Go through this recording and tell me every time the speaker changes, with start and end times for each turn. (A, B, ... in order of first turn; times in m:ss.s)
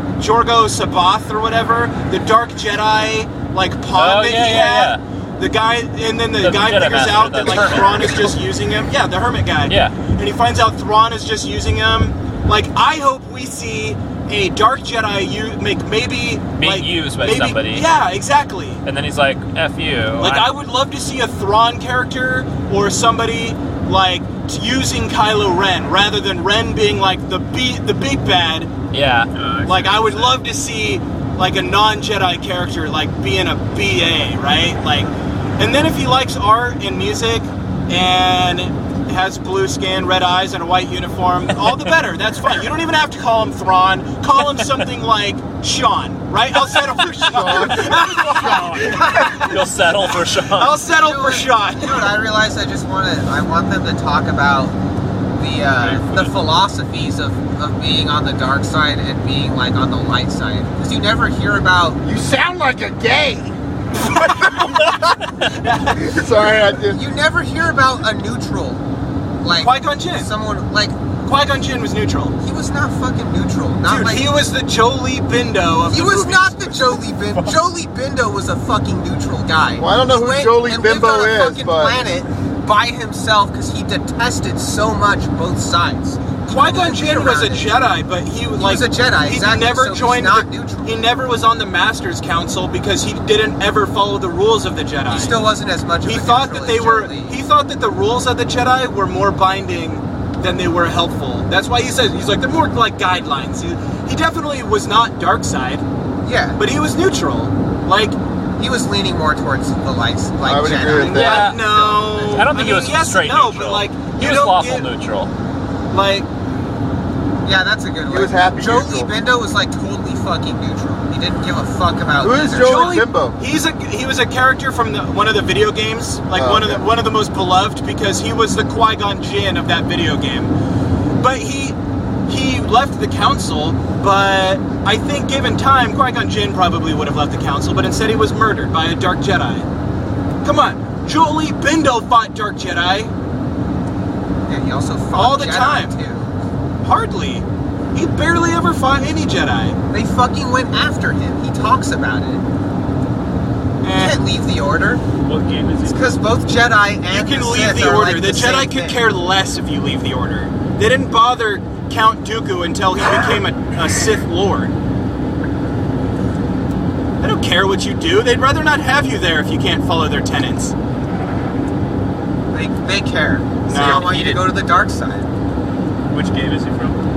0:00.2-0:18.8 A
0:03.9-0:05.0 B
0:06.4-0:08.4 B
0:09.7-0:10.0 B
0:16.6-0:17.9 B
0:18.8-0:20.5 B
0:20.2-0:28.7 A
0:28.9-0:29.3 B
0:29.3-0:30.4 C
0:29.6-0:49.6 A
0:47.2-0:49.2 D
0:47.4-0:50.8 B
0:49.0-0:49.6 E
0:50.5-0:52.2 A
0:50.9-0:54.8 E
0:55.4-1:02.0 E
1:02.0-1:03.6 D
1:04.0-1:05.0 A
1:05.5-1:06.0 A
1:05.8-1:07.0 D
1:06.9-1:08.8 E
1:09.4-1:11.1 E
1:09.6-1:10.3 A
1:11.2-1:12.4 A
1:12.4-1:14.4 E
1:13.9-1:17.0 A
1:15.9-1:27.8 E
1:19.8-1:22.0 D
1:26.5-1:35.4 A
1:28.6-1:31.1 E
1:35.1-1:37.4 E
1:36.0-1:45.8 A
1:46.2-1:46.6 E
1:46.6-1:48.2 A
1:48.6-1:52.7 E
1:50.4-1:51.5 D
1:51.0-1:54.9 A
1:51.0-1:55.3 B
1:55.9-1:56.3 A
1:57.4-2:03.0 E
1:58.1-1:59.1 D
2:02.2-2:03.4 D
2:02.6-2:10.5 A
2:06.3-2:06.8 D
2:11.2-2:11.8 A
2:12.3-2:19.7 A
2:20.4-2:23.1 A
2:24.5-2:26.3 E
2:25.1-2:25.9 A
2:26.8-2:29.8 A
2:29.9-2:32.5 E
2:33.8-2:34.2 A
2:33.9-2:35.0 E
2:35.3-2:36.2 C
2:35.8-2:39.0 E
2:37.1-2:44.7 A
2:47.2-2:50.7 A
2:52.5-2:55.3 E
2:53.7-2:54.4 A
2:53.8-2:54.4 B
2:56.1-2:57.0 C